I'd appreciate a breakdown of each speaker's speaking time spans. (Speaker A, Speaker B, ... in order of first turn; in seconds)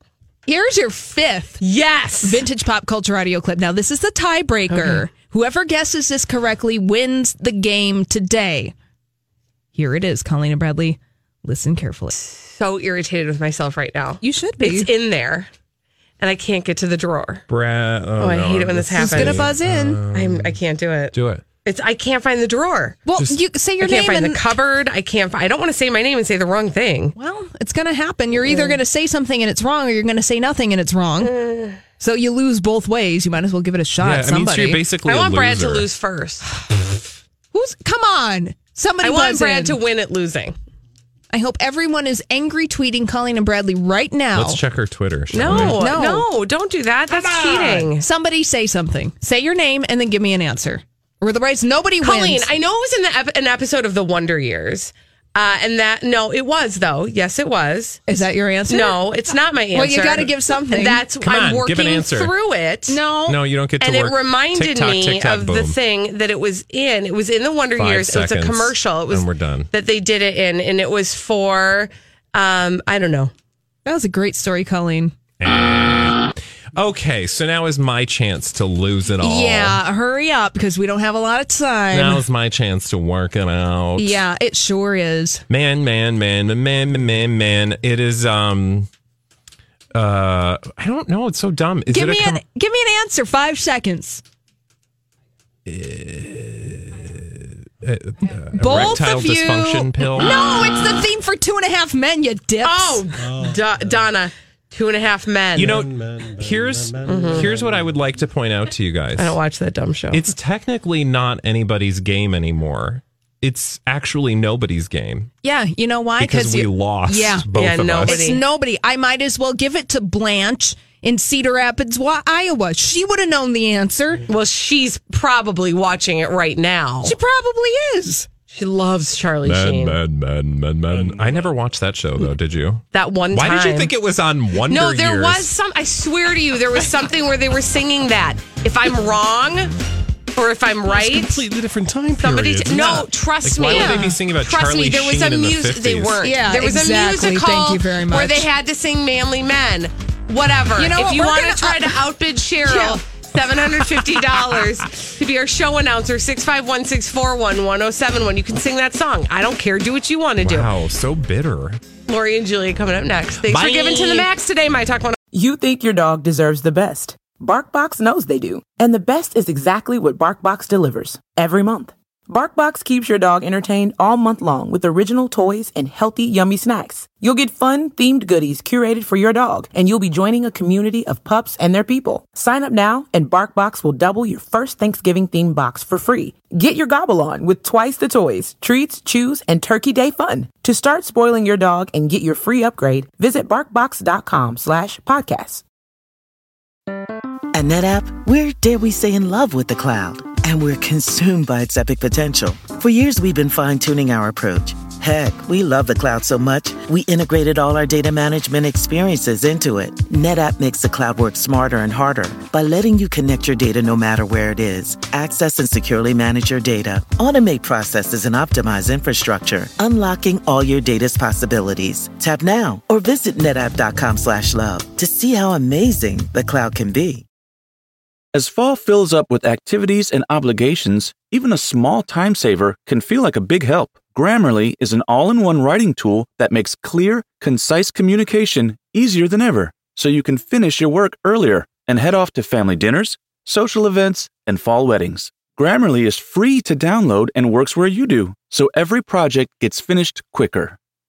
Speaker A: 0.5-1.6, 2.2-8.7, 9.8-12.2, 14.2-14.9, 18.9-20.0, 23.1-24.5, 27.1-34.9, 37.5-39.8, 41.3-44.6, 45.4-46.3, 47.8-52.5, 58.1-59.0, 59.7-61.1, 62.9-63.4, 73.9-75.1, 79.2-82.2, 84.0-85.4, 91.9-94.2, 98.4-103.1, 115.4-117.5, 118.0-124.3, 127.0-128.3, 143.7-144.2, 146.2-148.5, 150.7-152.1, 152.6-153.0
Speaker B: 1.6-2.4, 4.7-5.1, 12.2-15.5, 16.2-17.4, 18.2-19.5, 20.1-21.1, 21.6-23.0, 23.8-27.1, 28.4-28.8, 31.3-31.8, 35.0-36.5, 39.0-40.6, 45.3-48.1, 52.0-58.0, 58.7-63.0, 63.8-73.3, 102.6-105.9, 107.0-107.5, 109.2-110.2, 117.5-118.4, 124.3-127.2, 128.5-130.0, 132.9-133.9, 134.7-139.7, 140.3-141.4, 142.2-160.7, 162.1-165.2
Speaker C: 17.5-20.6, 21.1-21.4, 34.0-35.9, 44.3-45.8, 47.1-47.8, 61.2-62.3, 63.3-65.8, 67.8-69.7, 75.4-79.8, 81.9-84.2, 85.5-88.9, 89.9-92.4, 95.7-100.3, 105.5-109.4, 110.1-115.3, 116.2-118.2, 129.4-135.5, 140.9-146.2, 160.4-161.8, 163.4-164.3
Speaker D: 165.3-195.6
Speaker E: 197.5-227.2
Speaker F: 228.3-250.8